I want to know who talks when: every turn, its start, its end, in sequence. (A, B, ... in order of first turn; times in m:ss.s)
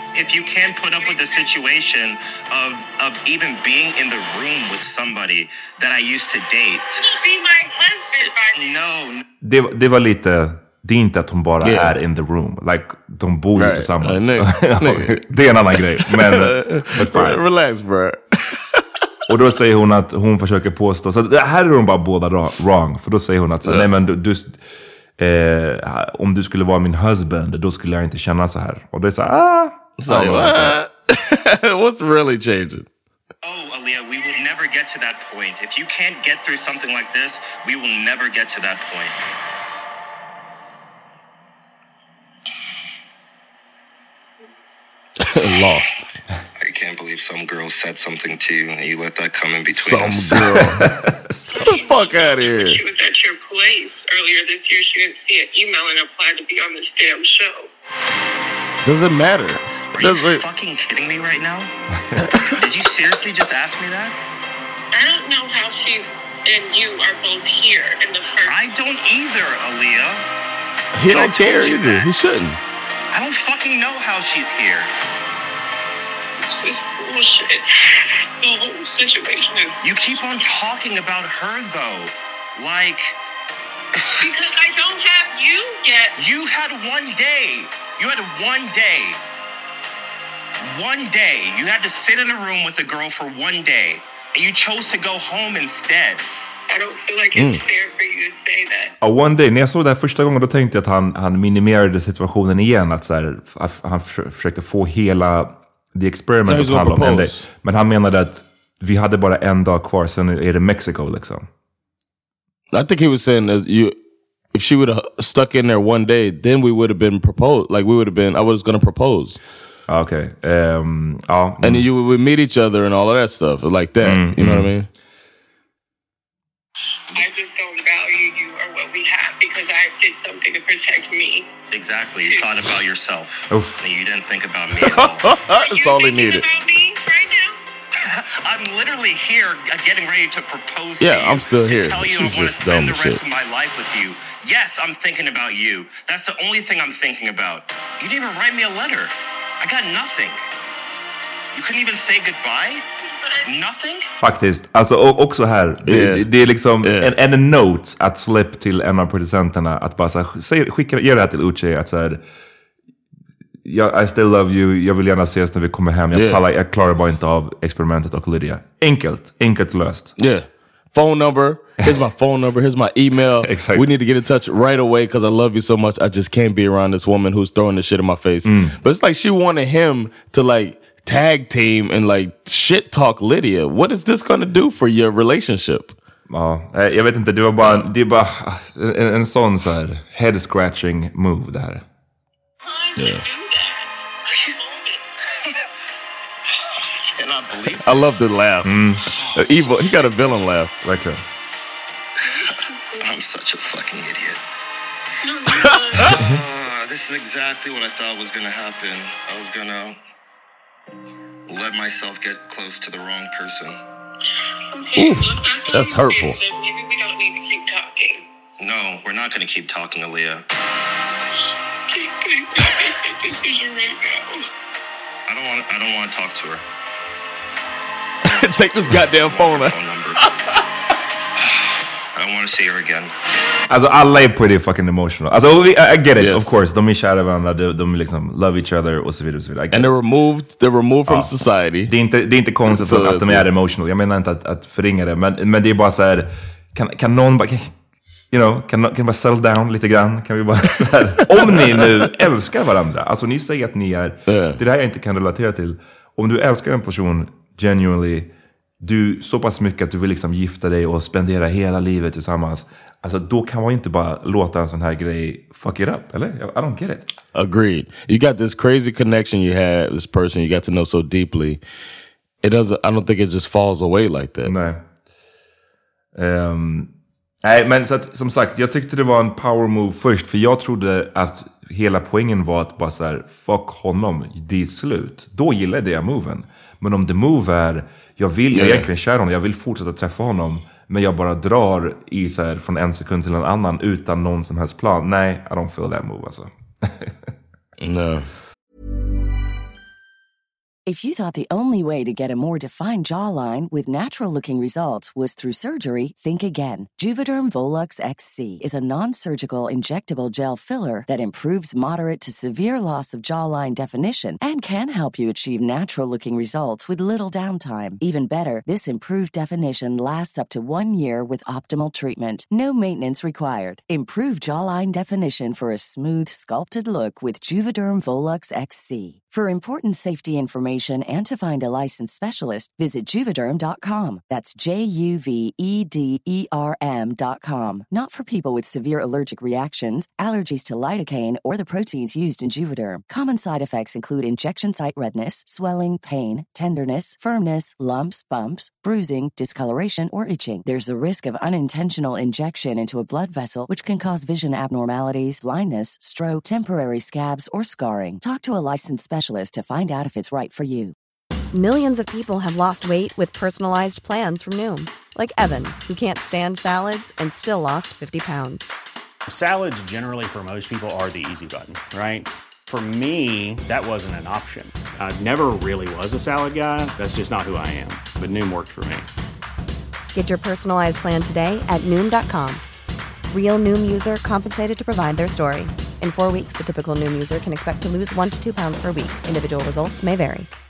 0:00.1-0:07.1 A
0:00.8-0:01.5 B
0:07.0-0:08.7 B
0:08.5-0:09.2 A
0:09.4-0:17.4 C
0:11.6-0:12.0 D
0:13.6-0:15.2 D
0:15.7-0:18.8 D
0:19.3-0:24.6 C
0:25.2-0:30.8 C
0:30.0-0:32.9 D
0:33.4-0:39.2 A
0:45.2-0:46.1 D
0:46.6-0:50.4 A
0:49.7-0:50.9 D
0:50.4-0:51.6 C
0:51.5-0:57.7 B
0:51.6-0:52.8 D
0:58.8-1:00.4 D
0:59.9-1:01.7 A
1:02.5-1:04.2 A
1:04.9-1:08.6 B
1:08.4-1:10.2 A
1:11.0-1:12.6 D
1:11.1-1:12.1 A
1:13.1-1:14.9 A
1:16.5-1:19.8 B
1:19.8-1:23.2 A
1:24.2-1:26.2 B
1:26.2-1:29.2 A
1:30.6-1:36.2 A
1:36.7-1:38.9 B
1:37.4-1:37.6 D
1:39.0-1:51.5 C
1:46.5-1:47.4 D
1:52.7-1:54.0 D
1:54.5-1:59.4 D
1:59.9-2:01.8 C
2:01.6-2:04.9 D
2:04.0-2:04.7 C
2:07.1-2:11.5 B
2:11.7-2:15.3 A
2:12.2-2:12.6 B
2:13.5-2:13.8 C
2:14.8-2:16.5 D
2:15.5-2:17.6 B
2:18.0-2:30.4 A
2:21.0-2:23.2 D
2:31.5-2:32.8 A
2:33.1-2:33.5 B
2:33.4-2:34.1 A
2:34.2-2:42.2 C
2:35.8-2:36.3 D
2:36.8-2:37.1 D
2:43.6-2:50.1 C
2:46.1-2:46.4 D
2:50.2-3:06.0 D
2:53.4-2:53.8 C
2:58.4-2:58.8 C
3:06.3-3:11.8 C
3:07.6-3:07.9 D
3:12.6-3:15.0 B
3:13.0-3:13.2 D
3:16.6-3:18.2 A
3:17.8-3:18.8 D
3:18.6-3:19.1 C
3:19.3-3:20.8 D
3:20.8-3:21.2 C
3:23.0-3:24.4 A
3:25.2-3:26.2 B
3:25.7-3:26.1 D
3:26.0-3:30.0 A
3:31.5-3:33.8 A
3:34.7-3:38.2 B
3:35.0-3:36.4 D
3:38.6-3:40.5 A
3:41.9-3:44.5 B
3:45.3-3:46.6 A
3:48.2-3:50.2 A
3:48.3-3:50.6 D
3:51.4-3:53.1 A
3:53.7-3:59.9 C
3:56.2-3:56.6 D
3:59.7-4:01.9 D
4:01.1-4:01.3 C
4:01.8-4:07.8 C
4:02.6-4:03.5 D
4:08.3-4:27.1 C
4:11.4-4:12.0 D
4:14.3-4:14.6 D
4:27.3-4:31.6 D
4:32.4-4:34.5 D
4:34.4-4:34.8 C
4:36.2-4:36.9 C
4:37.4-4:57.2 C
4:48.5-4:48.9 D
4:57.8-4:58.3 D
5:00.9-6:01.0 E
6:01.5-6:08.7 F
6:09.3-6:19.1 G
6:20.1-6:22.6 F
6:23.3-6:30.5 F